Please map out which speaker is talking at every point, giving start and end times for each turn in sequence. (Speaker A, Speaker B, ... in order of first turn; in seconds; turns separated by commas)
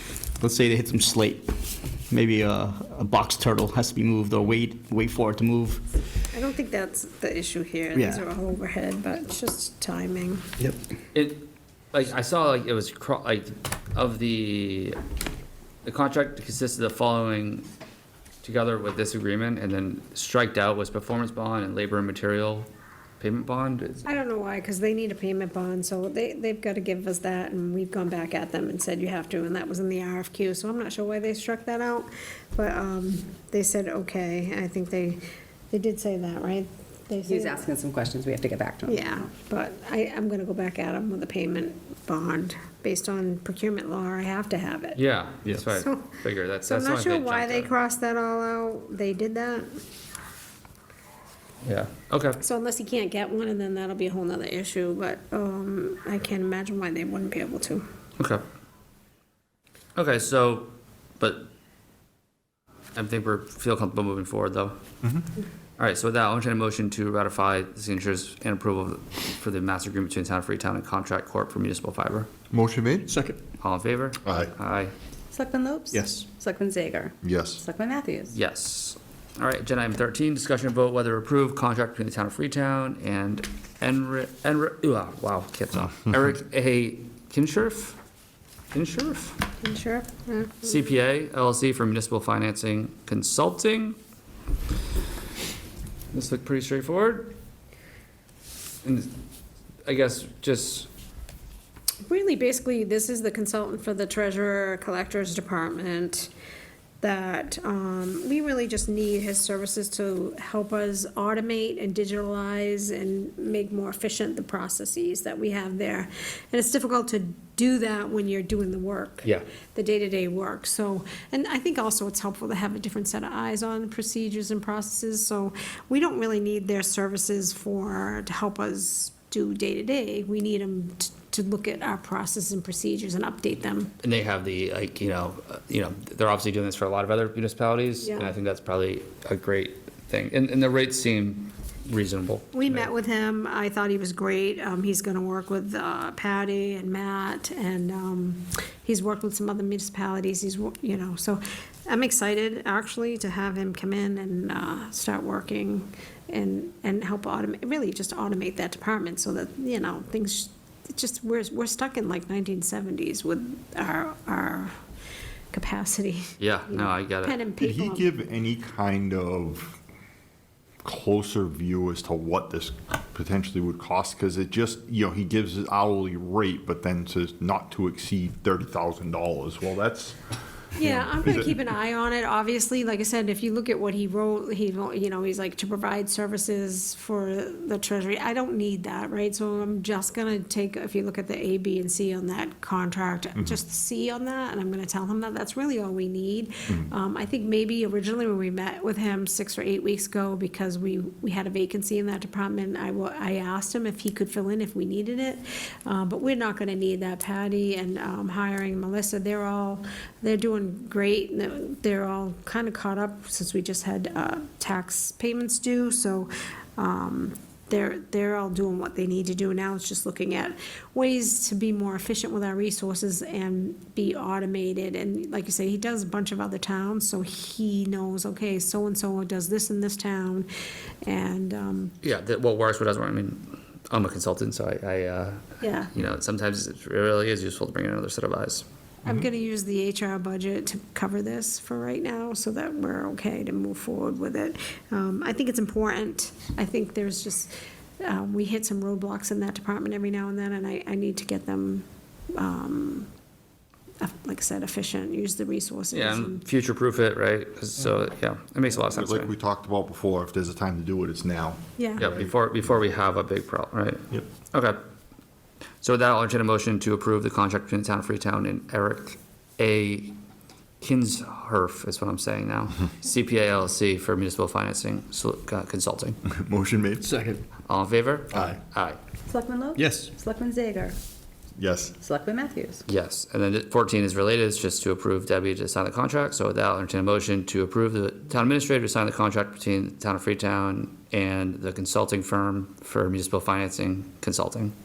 Speaker A: 0.2-5.8, Speaker B: 6.3-10.4, Speaker A: 7.9-8.2, Speaker C: 11.1-15.0, Speaker C: 15.8-17.7, Speaker C: 18.4-22.7, Speaker C: 23.2-24.1, Speaker B: 24.1-37.6, Speaker D: 37.2-39.3, Speaker B: 38.9-45.0, Speaker C: 44.9-47.7, Speaker B: 45.8-46.1, Speaker B: 46.6-49.7, Speaker C: 51.6-52.4, Speaker B: 52.4-57.8, Speaker C: 58.2-58.4, Speaker C: 59.9-61.5, Speaker C: 62.9-64.8, Speaker C: 65.8-72.3, Speaker E: 72.5-73.1, Speaker A: 73.1-73.4, Speaker C: 73.6-74.9, Speaker E: 74.2-74.5, Speaker D: 75.3-78.3, Speaker A: 75.9-76.2, Speaker E: 77.2-77.6, Speaker C: 78.3-88.0, Speaker C: 88.7-89.4, Speaker B: 89.6-90.9, Speaker C: 90.6-94.0, Speaker C: 96.1-97.3, Speaker C: 98.8-99.1, Speaker C: 99.8-100.9, Speaker B: 102.0-106.3, Speaker B: 107.0-133.9, Speaker C: 134.0-142.9, Speaker B: 138.0-138.3, Speaker B: 142.5-164.7, Speaker B: 165.5-168.1, Speaker C: 166.4-167.4, Speaker E: 167.6-169.8, Speaker E: 170.8-180.2, Speaker B: 180.8-230.5, Speaker E: 180.8-181.5, Speaker B: 231.0-231.9, Speaker C: 232.0-238.6, Speaker B: 235.6-235.9, Speaker B: 239.0-253.1, Speaker B: 254.0-256.4, Speaker C: 255.9-259.3, Speaker E: 258.8-262.3, Speaker B: 261.8-262.1, Speaker C: 262.0-264.8, Speaker C: 265.8-270.1, Speaker C: 270.8-276.2, Speaker E: 276.2-277.1, Speaker A: 277.0-277.4, Speaker C: 277.7-279.0, Speaker E: 278.3-278.6, Speaker D: 279.3-280.9, Speaker A: 279.7-280.1, Speaker E: 281.6-281.9, Speaker D: 282.0-282.8, Speaker C: 282.9-294.7